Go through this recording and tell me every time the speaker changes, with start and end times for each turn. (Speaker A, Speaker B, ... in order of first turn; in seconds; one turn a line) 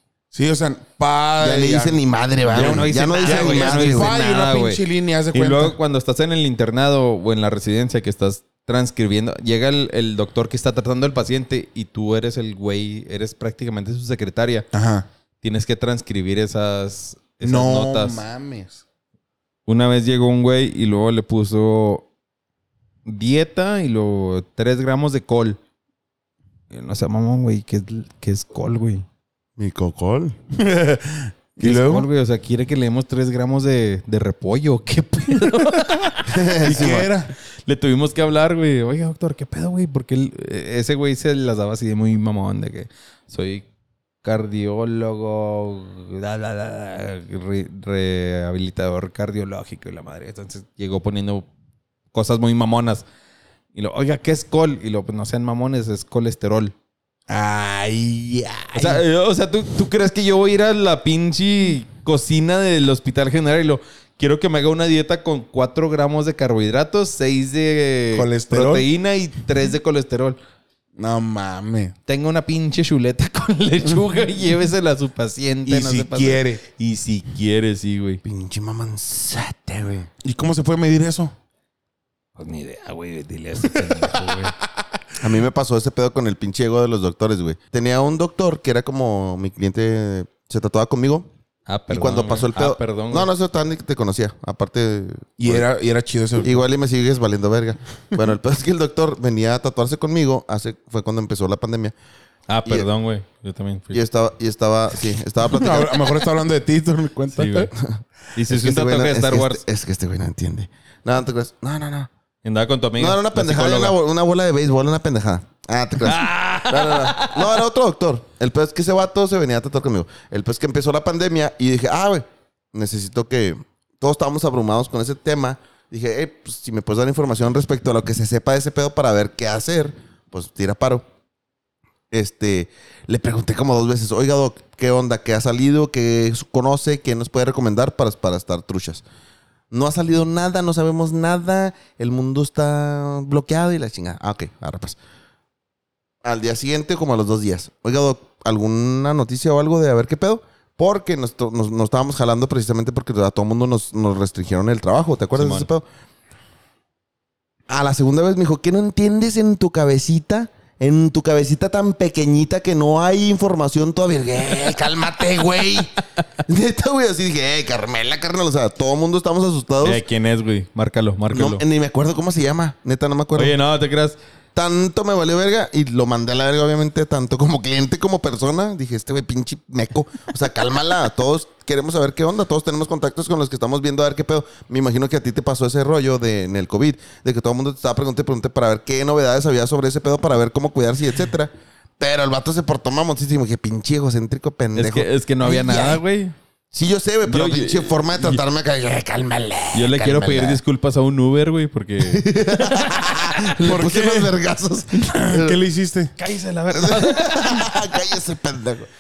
Speaker A: 0.3-2.0
Speaker B: 1.4-4.1
Speaker A: 2.5-5.8
Speaker C: 2.5-14.7
Speaker A: 14.7-15.1
Speaker C: 15.4-18.2
Speaker A: 17.4-18.8
Speaker C: 19.7-22.1
Speaker C: 23.1-25.6
Speaker C: 26.7-29.1
Speaker B: 29.6-30.4
Speaker A: 30.5-32.1
Speaker C: 31.6-37.1
Speaker B: 36.3-37.1
Speaker A: 36.6-37.3
Speaker C: 37.7-43.6
Speaker C: 44.2-51.5
Speaker C: 52.1-53.0
Speaker C: 53.8-56.7
Speaker A: 57.3-59.0
Speaker C: 58.7-70.4
Speaker A: 68.1-68.9
Speaker A: 71.0-72.0
Speaker C: 72.1-78.2
Speaker A: 75.7-76.6
Speaker B: 78.2-80.1
Speaker A: 80.2-81.3
Speaker C: 82.4-84.5
Speaker B: 85.2-91.3
Speaker C: 91.7-93.3
Speaker B: 91.9-95.7
Speaker A: 95.4-96.7
Speaker B: 96.4-101.9
Speaker C: 102.5-104.0
Speaker B: 103.9-106.2
Speaker A: 105.5-107.7
Speaker C: 107.4-107.7
Speaker C: 108.3-109.6
Speaker B: 108.5-112.1
Speaker C: 112.4-114.0
Speaker B: 113.0-131.1
Speaker C: 116.0-117.5
Speaker B: 132.1-139.0
Speaker B: 139.7-145.0
Speaker B: 146.2-155.8
Speaker C: 155.3-155.7
Speaker B: 157.7-170.0
Speaker C: 169.8-171.6
Speaker B: 171.3-173.6
Speaker C: 173.4-174.2
Speaker B: 174.6-196.0
Speaker C: 194.8-196.3
Speaker B: 196.7-200.6
Speaker C: 197.3-198.4
Speaker C: 199.7-202.9
Speaker B: 202.0-205.6
Speaker A: 203.6-204.3
Speaker A: 205.0-206.1
Speaker C: 206.2-207.8
Speaker B: 206.7-208.9